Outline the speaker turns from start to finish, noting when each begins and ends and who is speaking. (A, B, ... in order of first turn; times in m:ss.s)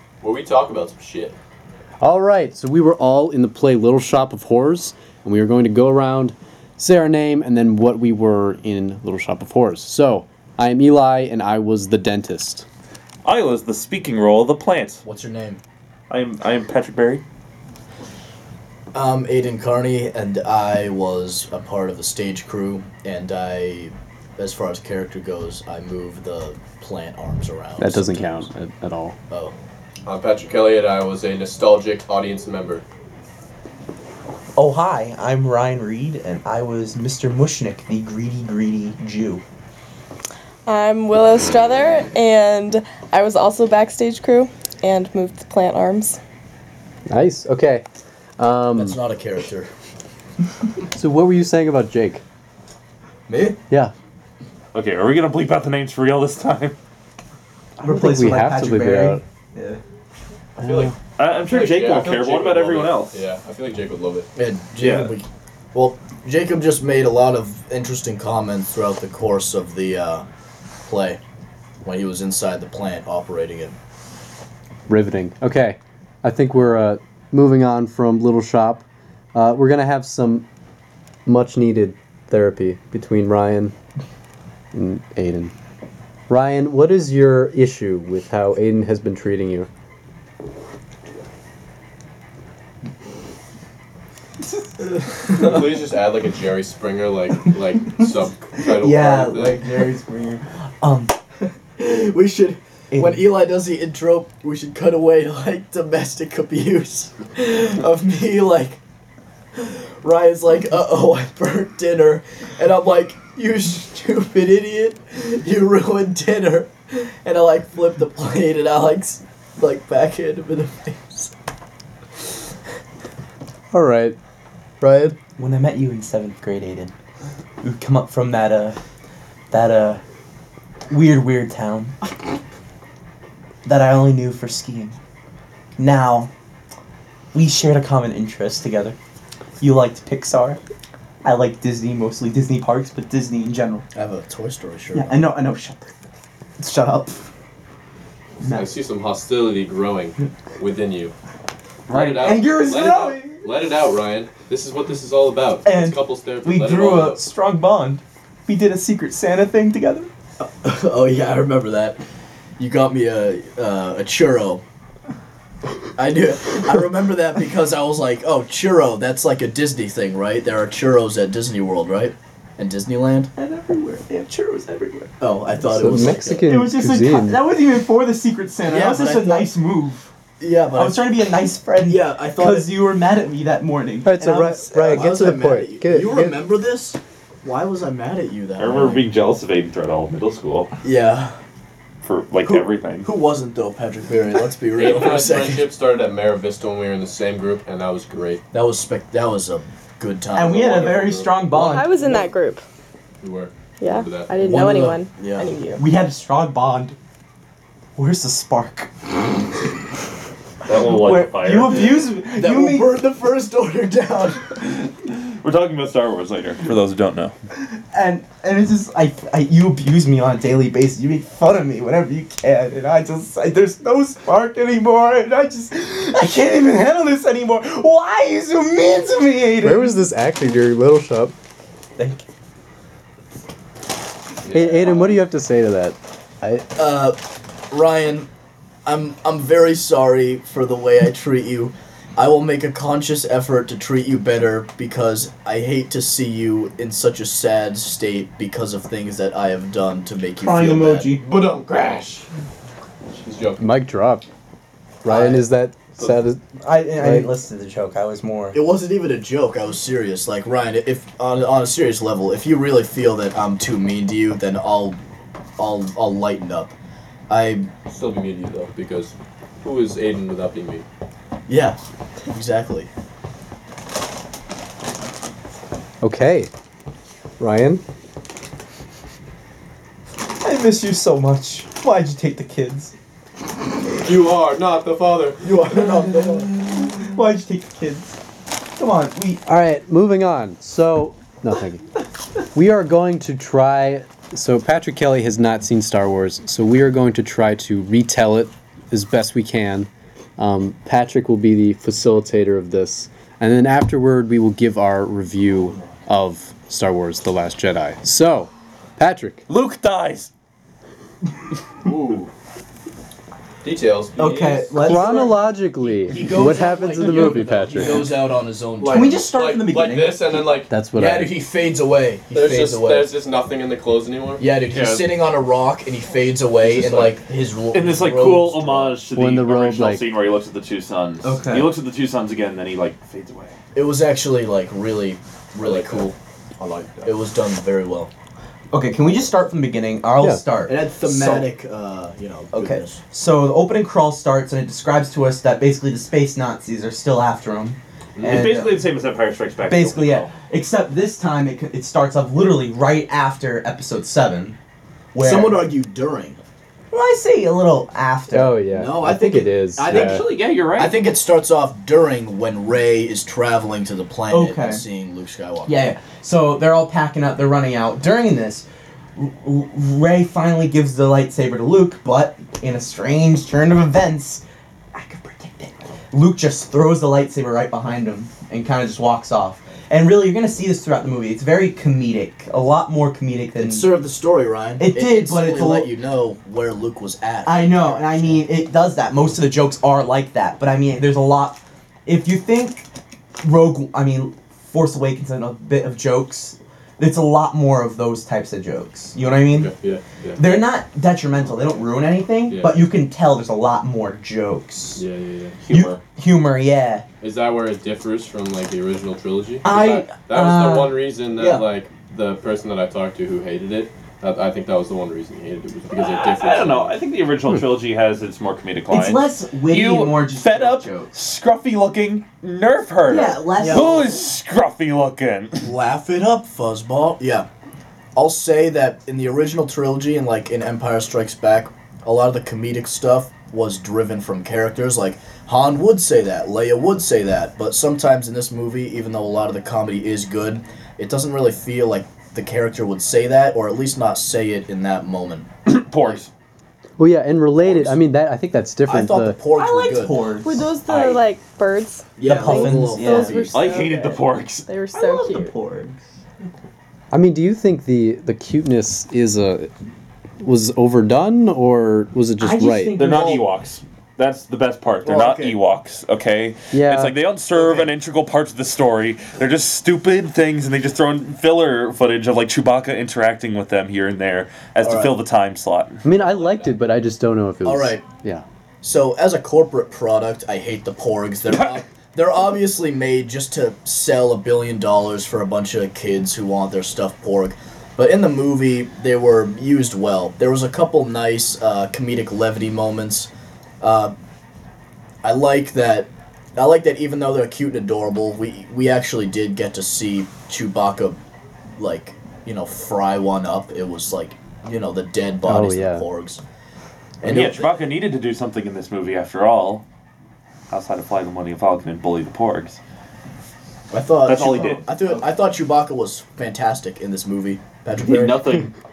0:00.2-0:01.4 A
0:02.0-0:12.6 B
0:13.2-0:15.0 C
0:15.0-0:15.6 D
0:16.1-0:17.2 C
0:18.9-0:28.5 D
0:27.8-0:29.2 B
0:29.3-0:29.5 D
0:30.0-0:32.8 A
0:34.6-0:39.4 E
0:40.6-0:46.2 F
0:47.1-0:47.8 B
0:48.4-0:49.0 B
0:48.7-0:49.7 D
0:50.9-0:52.2 B
0:53.3-0:53.6 D
0:54.7-0:56.7 C
0:57.8-0:59.8 E
0:57.8-0:59.2 B
1:00.6-1:04.3 A
1:01.2-1:03.2 C
1:04.3-1:10.2 D
1:04.8-1:05.1 C
1:10.8-1:11.2 D
1:11.8-1:13.8 D
1:14.9-1:20.4 B
1:21.2-1:23.7 B
1:24.7-1:25.5 B
1:26.3-1:29.7 B
1:35.2-1:39.8 A
1:38.6-1:41.1 E
1:41.8-1:48.8 D
1:42.9-1:43.2 E
1:49.6-2:01.3 D
2:03.7-2:04.2 B
2:04.8-2:05.2 D
2:05.4-2:06.9 E
2:07.6-2:08.8 E
2:09.5-2:10.0 E
2:10.9-2:12.0 E
2:13.6-2:15.0 E
2:15.8-2:16.3 E
2:17.3-2:19.0 E
2:19.6-2:20.6 E
2:21.2-2:23.8 E
2:23.9-2:25.3 D
2:24.9-2:25.9 E
2:26.6-2:27.3 E
2:28.4-2:28.7 E
2:28.4-2:31.1 A
2:31.9-2:37.2 A
2:31.9-2:33.4 E
2:35.6-2:40.1 E
2:40.4-2:42.0 D
2:42.6-2:44.6 D
2:45.9-2:53.3 D
2:53.3-2:55.1 E
2:55.2-2:56.5 D
2:55.7-2:57.4 B
2:56.5-3:00.1 E
2:58.6-2:59.5 D
3:00.4-3:01.1 D
3:00.7-3:05.1 E
3:01.8-3:02.7 D
3:04.0-3:06.4 B
3:04.9-3:09.0 D
3:08.6-3:10.7 C
3:10.8-3:11.4 D
3:12.0-3:13.1 C
3:12.4-3:15.7 D
3:14.7-3:18.4 A
3:18.5-3:21.0 D
3:20.3-3:21.9 E
3:20.6-3:22.3 A
3:21.6-3:22.6 F
3:23.2-3:24.6 A
3:23.8-3:25.8 F
3:24.4-3:25.5 D
3:25.8-3:27.0 E
3:28.0-3:28.9 E
3:30.6-3:32.1 C
3:30.9-3:33.0 E
3:32.3-3:34.9 D
3:35.4-3:37.3 C
3:37.9-3:50.0 E
3:49.6-3:51.3 B
3:52.0-3:52.2 E
3:54.4-3:55.1 A
3:54.5-3:56.7 B
3:56.8-3:57.2 D
3:57.7-3:58.3 D
3:58.8-4:11.1 D
4:10.4-4:11.2 E
4:11.2-4:12.3 A
4:13.2-4:13.6 A
4:13.6-4:14.2 B
4:15.0-4:16.4 B
4:15.1-4:15.4 E
4:16.6-4:18.6 E
4:17.0-4:17.3 B
4:18.5-4:25.0 D
4:25.6-4:26.7 D
4:27.3-4:27.7 D
4:27.9-4:30.8 A
4:31.5-4:32.9 D
4:36.0-4:36.5 B
4:37.4-4:37.8 B
4:40.4-4:42.9 E
4:44.0-4:45.8 A
4:45.4-4:46.5 D
4:45.7-4:48.2 E
4:48.8-4:49.4 E
4:49.4-4:52.0 B
4:52.5-5:09.4 B
5:09.5-5:10.3 C
5:11.8-5:12.3 A
5:13.6-5:15.2 A
5:14.2-5:15.3 E
5:14.8-5:18.1 B
5:15.0-5:19.2 D
5:17.0-5:18.0 A
5:18.8-5:20.7 A
5:18.9-5:20.5 E
5:20.7-5:21.4 B
5:20.9-5:23.1 D
5:22.3-5:25.1 A
5:24.4-5:29.0 D
5:26.6-5:27.2 A
5:27.7-5:33.6 C
5:29.1-5:30.1 B
5:31.2-5:31.7 E
5:33.7-5:36.1 D
5:35.6-5:37.2 A
5:37.0-5:38.1 D
5:38.7-5:41.5 E
5:40.6-5:43.0 D
5:42.5-5:48.8 E
5:48.2-5:48.4 A
5:48.2-5:50.3 C
5:49.7-5:54.6 E
5:55.1-5:55.7 E
5:55.2-5:56.4 D
5:56.9-5:58.6 E
5:58.3-6:00.3 B
5:58.7-6:05.8 D
5:59.8-6:01.0 C
6:04.3-6:04.8 E
6:05.6-6:08.6 E
6:09.2-6:14.4 E
6:14.9-6:23.9 E
6:23.6-6:28.4 D
6:24.8-6:25.9 E
6:27.4-6:32.9 E
6:33.4-6:39.7 E
6:39.5-6:40.6 A
6:40.4-6:45.0 E
6:42.5-6:42.9 A
6:45.0-6:45.6 A
6:45.6-6:46.0 C
6:45.7-6:47.0 E
6:47.2-6:57.0 A
6:49.6-6:51.0 E
6:51.4-6:51.6 D
6:55.9-7:05.7 C
6:58.9-7:01.1 E
7:03.0-7:04.1 E
7:03.5-7:04.0 D
7:05.6-7:07.5 D
7:08.1-7:25.5 D
7:25.6-7:26.3 C
7:27.0-7:29.4 B
7:27.6-7:28.0 D
7:28.8-7:30.2 D
7:29.5-7:30.7 E
7:30.4-7:35.5 F
7:30.9-7:31.2 C
7:32.2-7:33.7 D
7:32.2-7:33.5 E
7:33.5-7:34.7 C
7:34.9-7:35.9 E
7:37.1-7:39.7 B
7:40.4-7:42.9 B
7:42.4-7:43.5 E
7:43.0-7:56.0 C
7:45.0-7:45.6 D
7:46.7-7:47.2 B
7:47.5-7:47.9 D
7:54.8-7:55.2 D
7:56.0-7:58.4 B
7:56.1-7:56.8 A
7:57.6-7:58.0 D
7:58.8-8:13.3 D
8:13.8-8:14.1 D
8:15.2-8:21.2 D
8:21.8-8:26.4 D
8:25.4-8:26.0 B
8:27.2-8:27.8 D
8:27.2-8:29.8 C
8:30.7-8:32.8 C
8:33.9-8:38.7 D
8:34.2-8:34.9 C
8:38.0-8:38.7 C